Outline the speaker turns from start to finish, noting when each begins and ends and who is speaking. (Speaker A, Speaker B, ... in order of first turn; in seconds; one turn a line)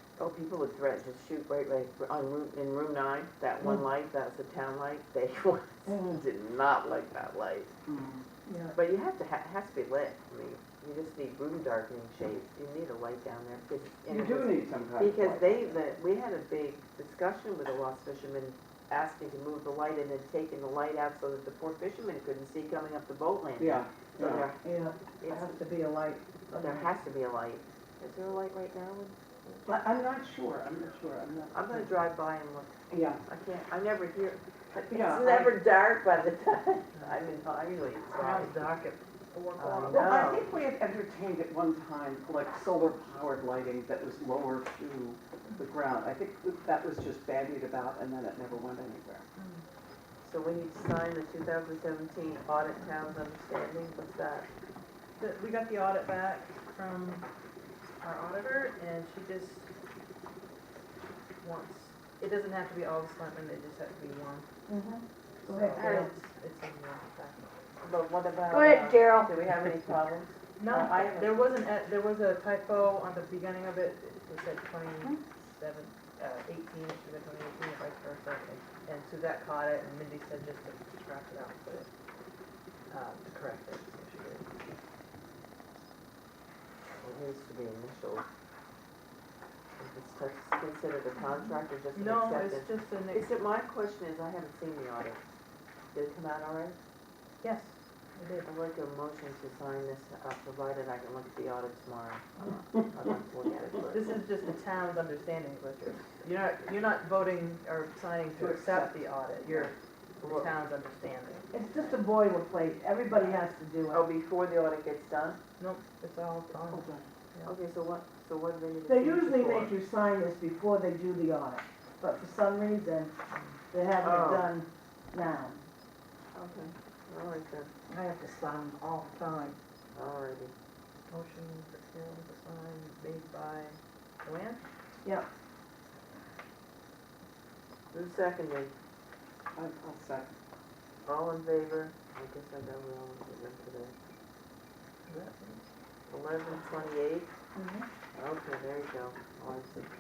Speaker A: 0.2-7.7
Speaker B: 5.9-6.2
Speaker C: 7.9-8.3
Speaker B: 8.4-8.8
Speaker A: 8.7-24.6
Speaker C: 14.1-15.8
Speaker C: 23.6-24.5
Speaker B: 24.6-26.9
Speaker A: 25.2-25.6
Speaker A: 26.5-29.6
Speaker C: 29.6-31.9
Speaker A: 31.5-38.6
Speaker C: 32.9-33.2
Speaker C: 34.7-35.6
Speaker D: 36.9-37.2
Speaker D: 38.1-40.2
Speaker A: 39.6-40.5
Speaker C: 39.9-49.3
Speaker D: 49.4-49.6
Speaker A: 50.2-54.5
Speaker D: 55.2-57.2
Speaker D: 58.0-59.7
Speaker D: 61.4-64.5
Speaker B: 64.7-66.1
Speaker D: 65.5-67.5
Speaker A: 65.8-66.0
Speaker A: 67.8-71.4
Speaker B: 68.5-69.3
Speaker D: 70.6-81.9
Speaker D: 82.9-84.5
Speaker A: 87.0-88.2
Speaker A: 89.8-95.2
Speaker D: 91.2-93.3
Speaker A: 95.9-96.8
Speaker D: 97.4-98.5
Speaker A: 98.4-104.1
Speaker D: 103.9-111.5
Speaker C: 108.3-109.7
Speaker A: 110.2-110.5
Speaker B: 111.5-114.1
Speaker A: 113.9-115.4
Speaker D: 115.6-117.5
Speaker C: 116.7-117.0
Speaker A: 117.4-119.7
Speaker B: 118.9-123.2
Speaker D: 123.3-123.6
Speaker B: 123.7-125.6
Speaker A: 124.0-124.5
Speaker A: 126.3-127.7
Speaker B: 127.9-129.6
Speaker A: 129.9-130.5
Speaker D: 131.1-134.6
Speaker A: 137.9-138.7
Speaker C: 139.6-140.3
Speaker A: 141.1-143.9
Speaker D: 145.1-145.6
Speaker A: 146.1-147.3
Speaker B: 147.6-147.9
Speaker A: 148.1-149.9